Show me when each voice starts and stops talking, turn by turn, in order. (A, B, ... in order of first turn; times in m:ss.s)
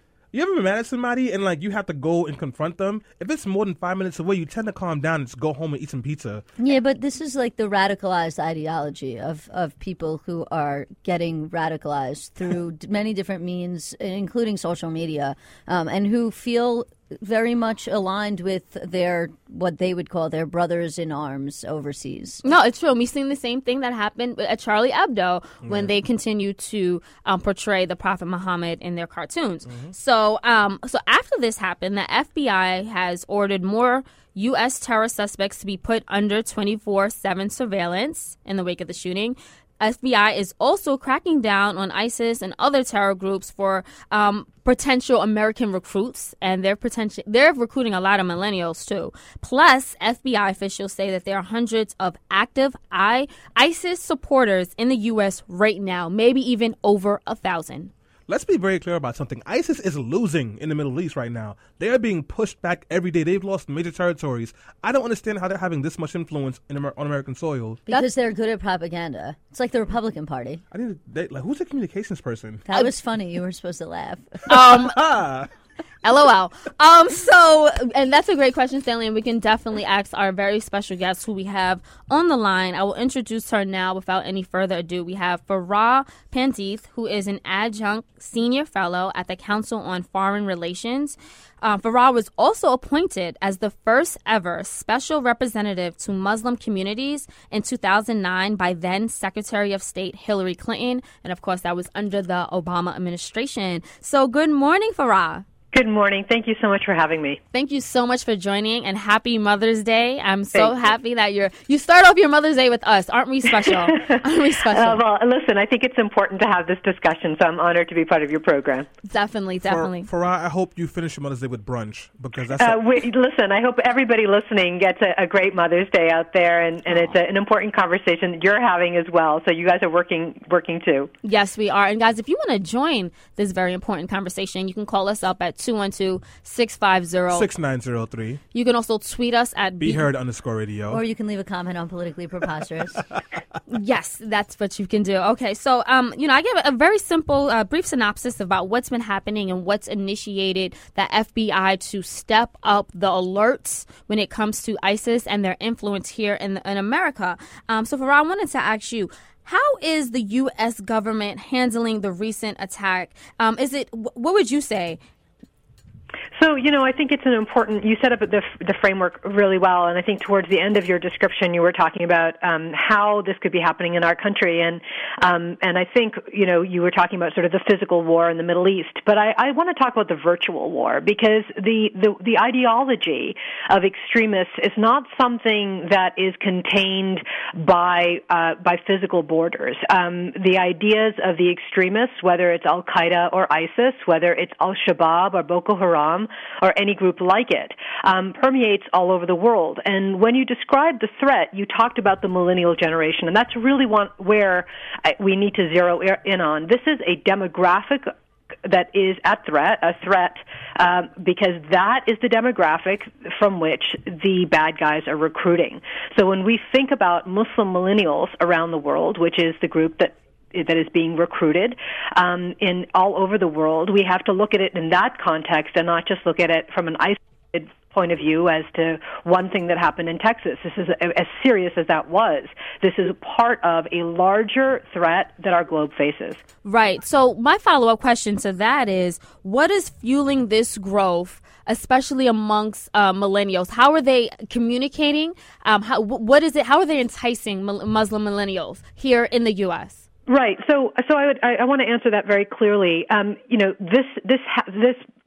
0:00.3-0:06.4 A
0:06.6-0:22.4 B
0:22.4-0:57.9 C
0:25.6-0:25.9 A
0:29.7-0:29.9 A
0:58.3-1:07.8 A
1:07.9-1:10.6 B
1:10.7-1:12.6 A
1:12.6-1:14.5 B
1:14.5-1:15.0 C
1:14.6-1:15.5 A
1:16.0-1:45.4 C
1:45.7-1:47.4 D
1:47.5-1:55.0 C
1:53.8-1:54.2 D
1:54.7-1:58.9 D
1:59.1-2:00.1 C
1:59.6-2:02.8 A
2:02.6-2:11.1 D
2:11.2-2:17.5 C
2:17.3-2:18.4 A
2:18.5-2:20.1 C
2:19.8-2:21.0 A
2:20.9-2:23.0 B
2:23.7-2:45.0 C
2:46.4-3:28.1 D
3:28.6-3:56.4 D
3:56.6-4:10.0 C
4:10.3-4:15.0 D